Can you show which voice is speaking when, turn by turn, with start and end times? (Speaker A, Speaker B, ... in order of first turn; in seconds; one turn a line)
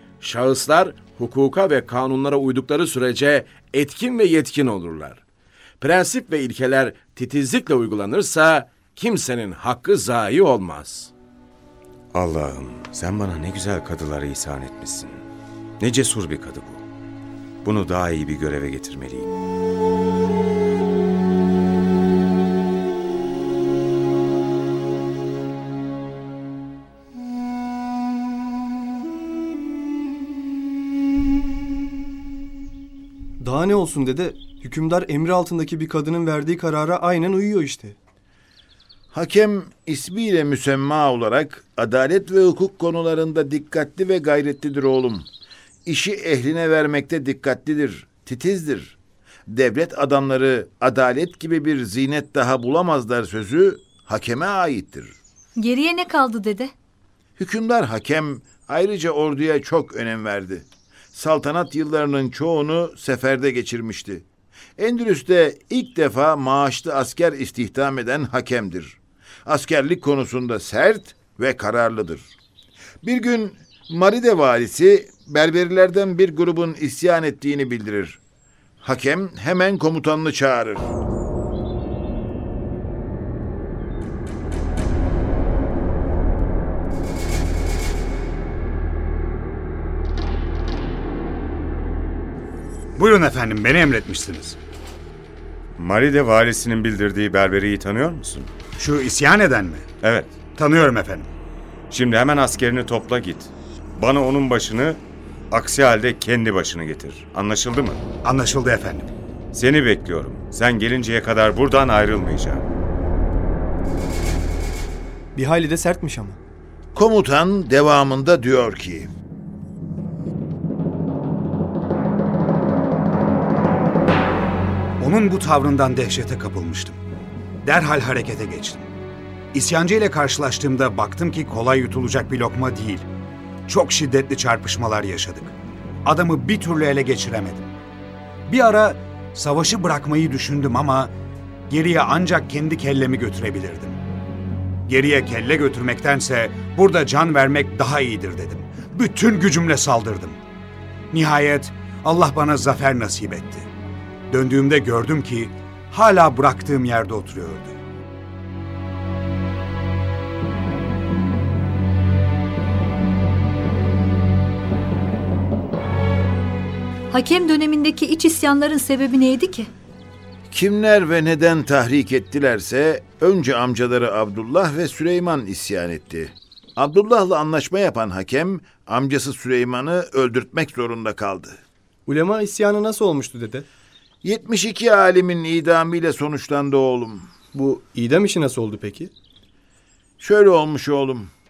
Speaker A: 0.2-5.2
Speaker A: 5.8-11.1
Speaker B: 12.1-15.2
Speaker B: 15.8-16.8
Speaker B: 17.6-19.3
Speaker C: 33.4-38.0
Speaker D: 39.1-45.3
Speaker D: 45.9-49.0
Speaker D: 49.5-55.1
Speaker E: 55.6-56.7
Speaker D: 57.4-64.2
Speaker D: 64.8-72.3
Speaker D: 73.0-78.2
Speaker D: 78.8-80.9
Speaker F: 93.0-94.5
Speaker B: 95.8-98.5
Speaker F: 98.8-99.8
Speaker B: 100.0-100.5
Speaker F: 100.5-101.3
Speaker B: 101.9-108.0
Speaker F: 108.2-109.1
Speaker B: 109.5-112.6
Speaker C: 115.3-116.4
Speaker D: 116.9-119.1
Speaker F: 125.0-127.0
Speaker F: 127.6-128.9
Speaker F: 129.5-133.0
Speaker F: 133.7-135.5
Speaker F: 136.0-137.7
Speaker F: 138.5-141.1
Speaker F: 141.7-144.0
Speaker F: 144.9-150.4
Speaker F: 151.1-153.7
Speaker F: 154.3-157.7
Speaker E: 167.8-169.6
Speaker D: 170.5-181.6
Speaker C: 182.1-183.6
Speaker D: 184.2-187.3
Speaker C: 187.5-189.1
Speaker D: 190.2-191.3